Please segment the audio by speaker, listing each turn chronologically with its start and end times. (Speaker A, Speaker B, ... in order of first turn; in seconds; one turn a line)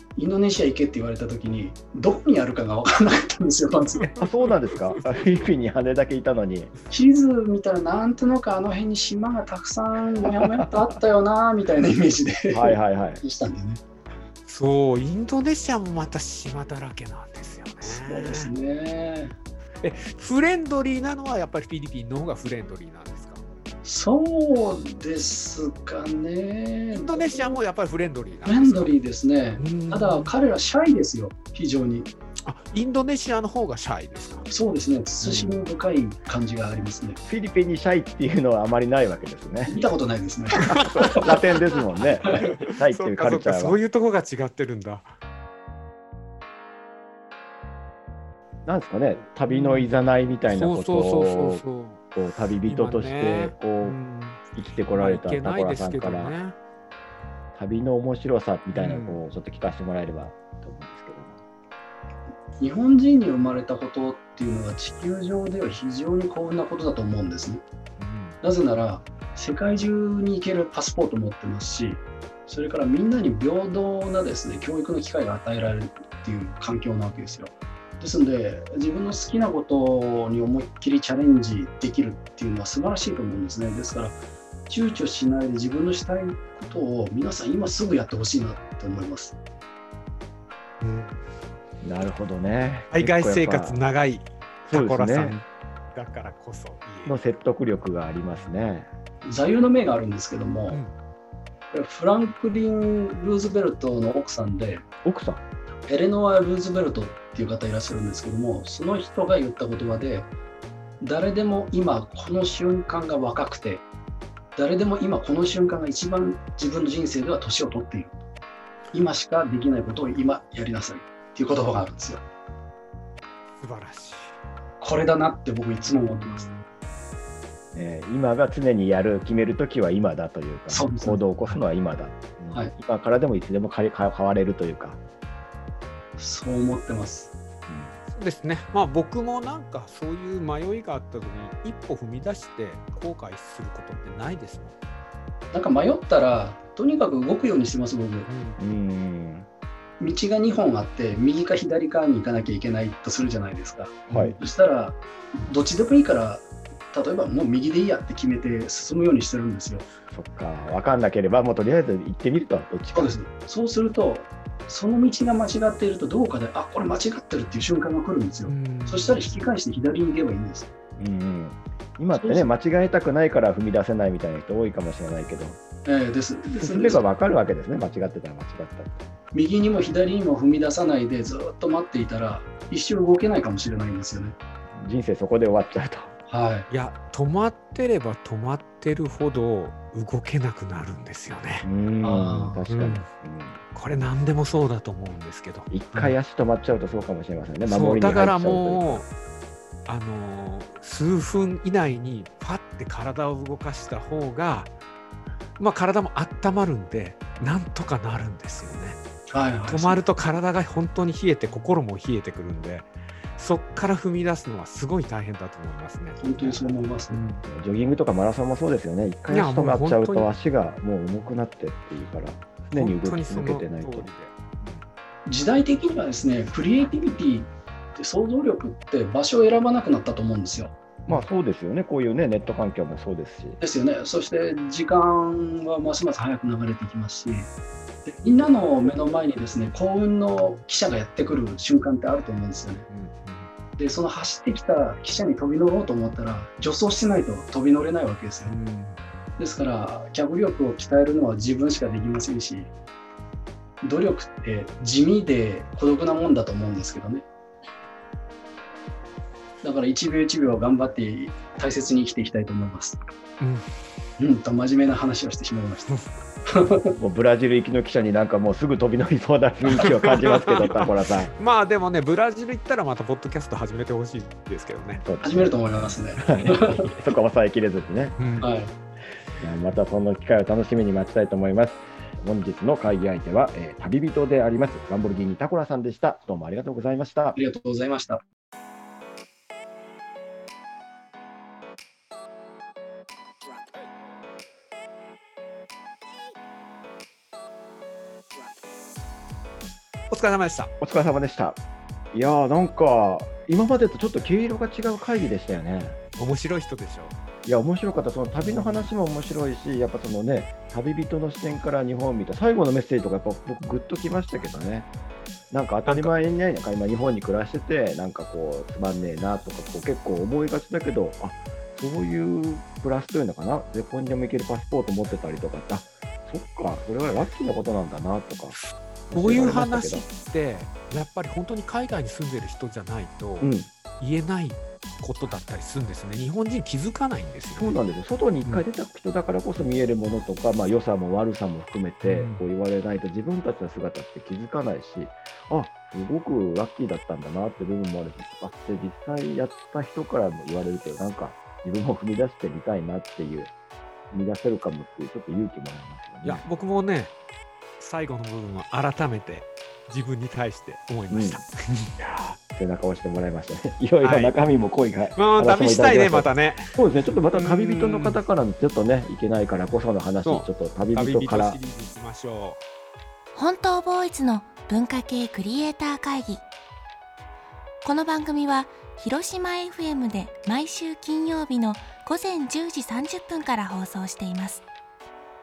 Speaker A: 0.1-4.2
Speaker B: 4.0-4.3
Speaker C: 4.2-6.7
Speaker A: 6.9-13.8
Speaker C: 10.2-10.6
Speaker C: 12.5-13.2
Speaker B: 14.5-18.5
Speaker A: 17.8-19.3
Speaker B: 19.8-23.4
Speaker A: 23.8-27.6
Speaker B: 26.9-28.9
Speaker A: 28.4-32.1
Speaker B: 29.6-30.3
Speaker B: 32.4-34.5
Speaker A: 34.5-37.2
Speaker B: 35.2-35.6
Speaker C: 37.2-39.8
Speaker A: 39.7-40.6
Speaker B: 40.6-41.6
Speaker C: 40.7-43.8
Speaker B: 42.2-45.1
Speaker C: 48.6-51.6
Speaker B: 49.4-49.9
Speaker B: 50.5-52.0
Speaker C: 52.1-54.0
Speaker B: 52.6-56.6
Speaker C: 54.5-56.4
Speaker C: 57.5-61.4
Speaker B: 58.7-59.2
Speaker A: 62.6-67.6
Speaker B: 68.0-68.4
Speaker A: 68.4-84.2
Speaker A: 84.7-89.3
Speaker B: 90.8-91.2
Speaker C: 91.8-93.8
Speaker B: 92.9-97.2
Speaker C: 94.7-95.4
Speaker C: 97.0-98.9
Speaker A: 99.2-100.8
Speaker A: 101.7-104.8
Speaker C: 105.0-105.4
Speaker A: 105.8-110.3
Speaker A: 111.0-113.8
Speaker A: 114.5-118.2
Speaker A: 118.9-122.2
Speaker B: 123.6-124.4
Speaker A: 124.8-126.5
Speaker B: 125.8-126.7
Speaker C: 127.7-135.0
Speaker A: 130.7-131.2
Speaker A: 136.2-137.3
Speaker C: 137.7-137.9
Speaker B: 138.1-144.8
Speaker A: 145.5-148.3
Speaker B: 148.2-148.6
Speaker C: 148.6-149.5
Speaker A: 150.0-159.8
Speaker B: 154.1-154.4
Speaker C: 154.1-154.3
Speaker C: 160.1-163.1
Speaker A: 162.9-170.7
Speaker B: 168.4-169.5
Speaker C: 171.0-175.6
Speaker A: 172.1-172.4
Speaker A: 175.8-177.0
Speaker C: 176.6-179.1
Speaker A: 179.3-184.3
Speaker C: 184.7-186.1
Speaker A: 186.3-186.7
Speaker B: 186.7-191.7
Speaker C: 191.6-193.6
Speaker A: 192.0-192.6
Speaker B: 192.7-193.0
Speaker B: 193.7-195.7
Speaker C: 195.7-199.0
Speaker B: 197.7-199.1
Speaker B: 199.9-204.7
Speaker B: 205.6-209.0
Speaker A: 209.3-210.0
Speaker B: 209.7-217.4
Speaker A: 216.2-217.2
Speaker C: 217.4-224.1
Speaker B: 219.3-220.3
Speaker B: 222.7-224.8
Speaker A: 225.2-230.7
Speaker C: 231.1-233.6
Speaker A: 233.6-237.5
Speaker A: 238.1-242.8
Speaker B: 242.9-243.5
Speaker A: 243.8-248.5
Speaker B: 248.4-249.0
Speaker A: 249.4-252.7
Speaker A: 253.8-257.2
Speaker A: 259.6-263.0
Speaker B: 263.4-263.7
Speaker A: 264.2-265.9
Speaker B: 265.9-266.1
Speaker A: 266.5-266.9
Speaker C: 266.9-271.3
Speaker B: 269.7-275.0
Speaker C: 275.0-278.2
Speaker A: 275.2-276.9
Speaker B: 278.2-278.5
Speaker A: 278.4-278.7
Speaker C: 279.4-287.4
Speaker A: 287.3-288.2
Speaker B: 300.1-300.7
Speaker C: 300.8-301.6
Speaker C: 302.1-306.0
Speaker B: 306.1-307.1
Speaker C: 307.4-314.9
Speaker B: 308.4-308.9
Speaker C: 315.5-328.6
Speaker B: 315.8-316.2
Speaker B: 328.5-337.8
Speaker C: 329.1-330.0
Speaker C: 333.4-333.7
Speaker C: 337.6-353.5
Speaker B: 342.0-342.4
Speaker C: 354.1-356.4
Speaker B: 356.2-357.1
Speaker B: 357.8-362.4
Speaker C: 361.1-361.4
Speaker C: 362.5-371.6
Speaker B: 364.0-364.3
Speaker B: 365.1-366.7
Speaker B: 367.3-368.2
Speaker B: 370.2-372.6
Speaker D: 373.3-376.4
Speaker D: 377.8-384.6